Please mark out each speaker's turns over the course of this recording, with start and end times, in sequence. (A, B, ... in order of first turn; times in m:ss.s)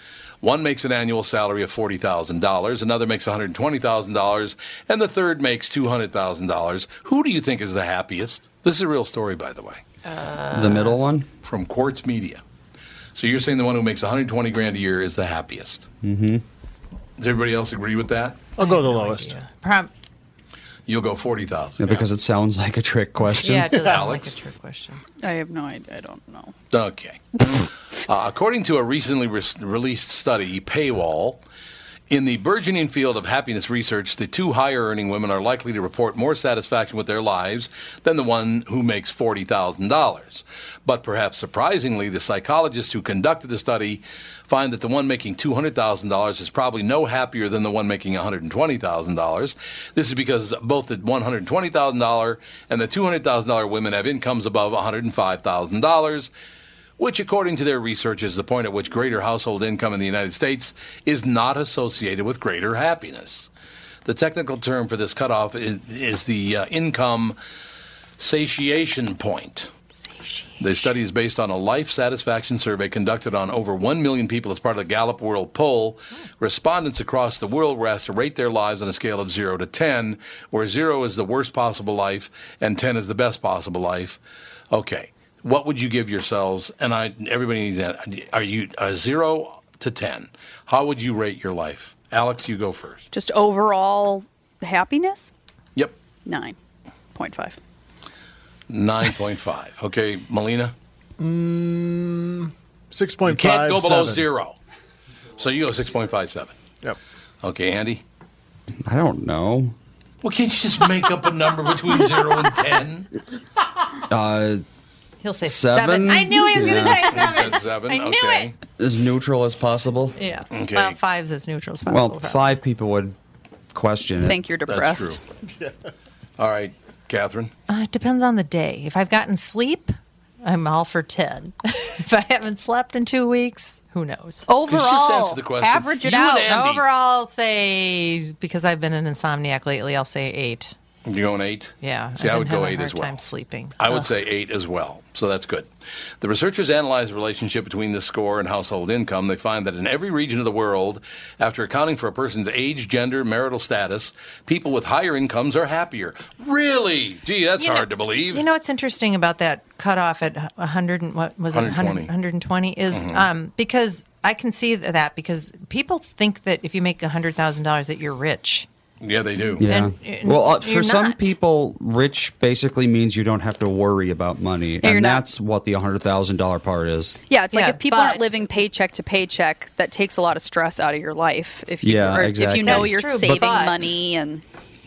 0:00.4-0:09.8 A
0:10.0-0:11.0 B
0:10.5-0:11.3 C
0:11.4-0:12.4 A
0:13.1-0:15.9 A
0:16.0-0:16.4 C
0:17.2-0:18.4 A
0:18.6-0:19.4 D
0:18.6-0:19.9 B
0:20.9-0:22.0 A
0:21.8-0:23.9 C
0:23.4-0:25.0 B
0:23.9-0:24.3 A
0:25.2-0:26.5 E
0:26.7-0:31.4 A
0:32.1-0:56.3 A
0:57.0-1:03.5 A
1:04.0-1:07.4 A
1:08.2-1:09.7 A
1:10.6-1:24.2 A
1:24.7-1:33.1 A
1:33.1-1:35.3 E
1:36.3-1:36.6 E
1:37.2-1:37.6 E
1:38.7-1:40.7 A
1:41.2-1:44.3 D
1:43.3-1:44.6 A
1:45.4-1:46.6 A
1:47.4-1:48.0 A
1:48.8-1:49.8 C
1:50.2-1:53.1 A
1:54.1-1:54.6 C
1:55.2-1:58.5 B
1:55.4-1:57.1 C
1:57.0-1:58.6 A
1:58.8-2:00.2 C
2:00.2-2:02.6 B
2:00.5-2:01.0 A
2:01.9-2:03.2 C
2:03.7-2:04.4 C
2:04.2-2:05.2 E
2:04.7-2:05.2 A
2:06.4-2:07.5 A
2:07.7-2:14.5 B
2:14.5-2:16.5 E
2:14.7-2:16.8 A
2:16.3-2:20.7 B
2:21.1-2:23.2 A
2:21.8-2:24.2 B
2:23.8-2:38.5 A
2:37.6-2:48.7 B
2:41.5-2:42.1 A
2:42.9-2:43.3 A
2:49.0-2:49.7 A
2:49.6-2:57.2 C
2:49.6-2:51.3 B
2:54.8-2:55.2 E
2:57.3-3:04.4 E
2:57.5-2:58.3 B
3:01.8-3:03.4 C
3:02.6-3:03.9 B